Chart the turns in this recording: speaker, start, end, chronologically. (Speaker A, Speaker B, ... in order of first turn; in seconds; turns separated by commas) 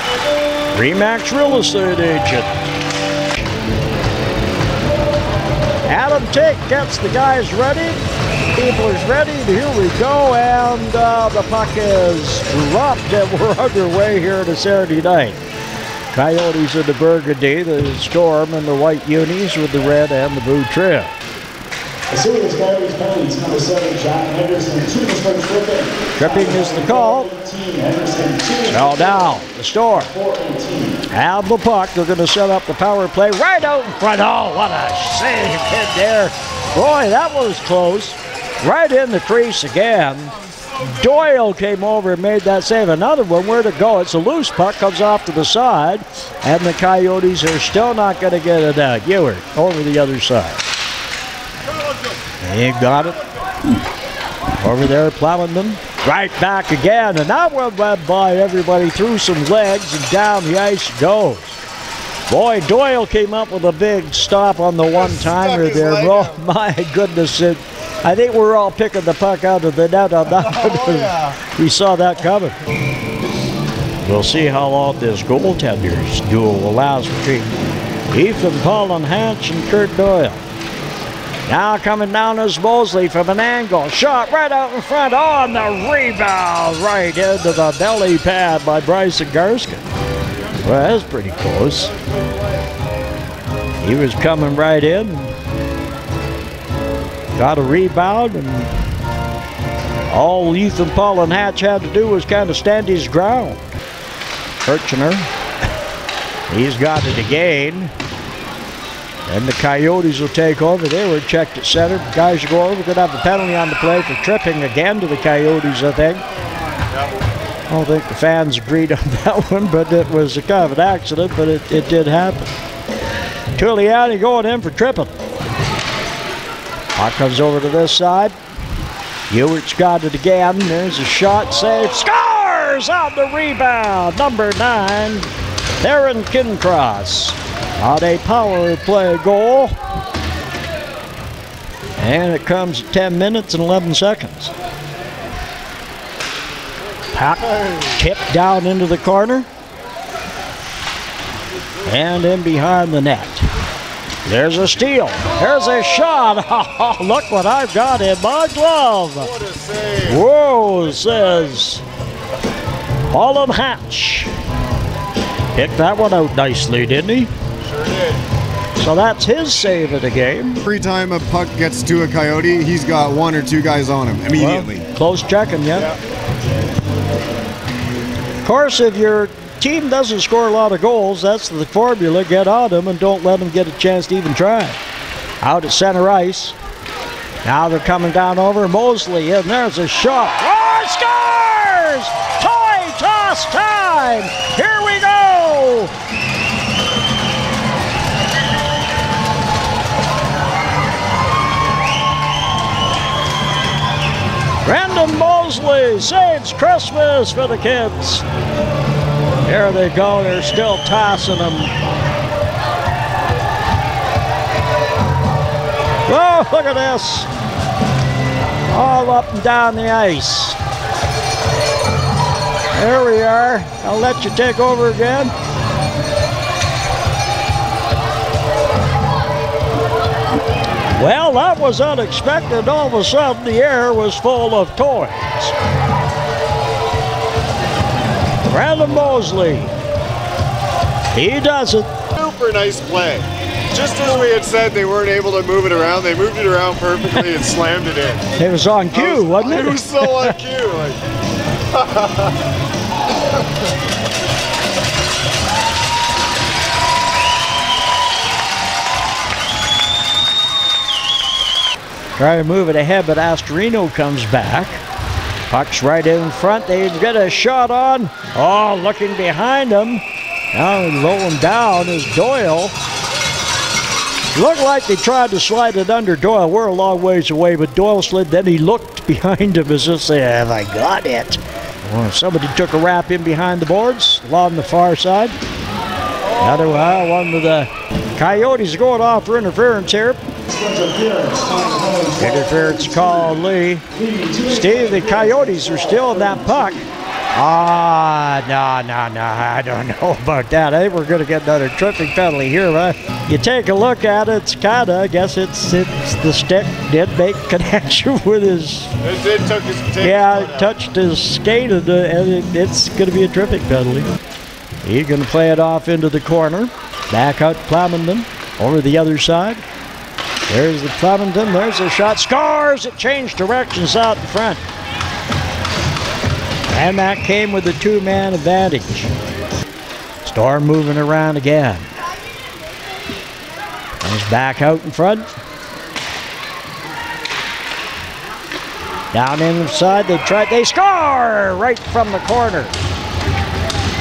Speaker A: 0.7-2.5, Speaker A: 5.9-8.0, Speaker A: 8.5-15.4, Speaker A: 16.1-21.1, Speaker B: 22.1-29.2, Speaker A: 26.1-27.3, Speaker A: 28.7-30.1, Speaker B: 30.1-31.0, Speaker A: 31.1-50.6, Speaker A: 52.4-53.2, Speaker A: 54.6-61.6, Speaker A: 62.3-72.6, Speaker C: 65.2-66.2, Speaker A: 74.0-77.5, Speaker A: 78.1-80.4, Speaker A: 81.5-89.9, Speaker A: 90.6-91.9, Speaker A: 93.8-95.3, Speaker A: 97.3-98.7, Speaker A: 100.1-103.8, Speaker A: 104.6-105.3, Speaker A: 106.5-107.9, Speaker A: 109.3-116.2, Speaker A: 117.7-122.5, Speaker A: 123.5-125.1, Speaker A: 127.0-128.3, Speaker A: 129.3-139.8, Speaker A: 142.0-144.5, Speaker A: 147.1-149.5, Speaker A: 151.8-153.4, Speaker A: 154.2-159.4, Speaker C: 159.3-160.1, Speaker A: 160.0-161.8, Speaker A: 163.1-164.3, Speaker A: 165.5-167.3, Speaker A: 168.8-170.6, Speaker D: 170.6-174.8, Speaker A: 174.3-175.9, Speaker A: 178.4-184.8, Speaker A: 185.4-186.6, Speaker A: 187.4-195.9, Speaker A: 204.6-208.2, Speaker A: 209.4-211.7, Speaker A: 216.1-217.3, Speaker A: 218.6-220.6, Speaker A: 222.7-225.3, Speaker A: 230.9-235.5, Speaker A: 238.4-239.7, Speaker A: 241.1-242.0, Speaker C: 242.1-248.3, Speaker A: 248.3-250.4, Speaker C: 249.0-251.0, Speaker C: 251.7-252.3, Speaker A: 262.2-264.8, Speaker A: 265.5-272.7, Speaker A: 274.3-285.3, Speaker A: 286.4-290.2, Speaker B: 290.5-293.0, Speaker A: 292.2-293.8, Speaker B: 293.9-296.4, Speaker A: 294.4-296.8, Speaker A: 297.3-308.9, Speaker C: 309.0-310.6, Speaker A: 310.0-314.1, Speaker A: 314.8-319.6, Speaker A: 320.5-324.6, Speaker A: 326.7-329.1, Speaker A: 330.2-331.9, Speaker A: 334.0-335.3, Speaker A: 339.1-342.8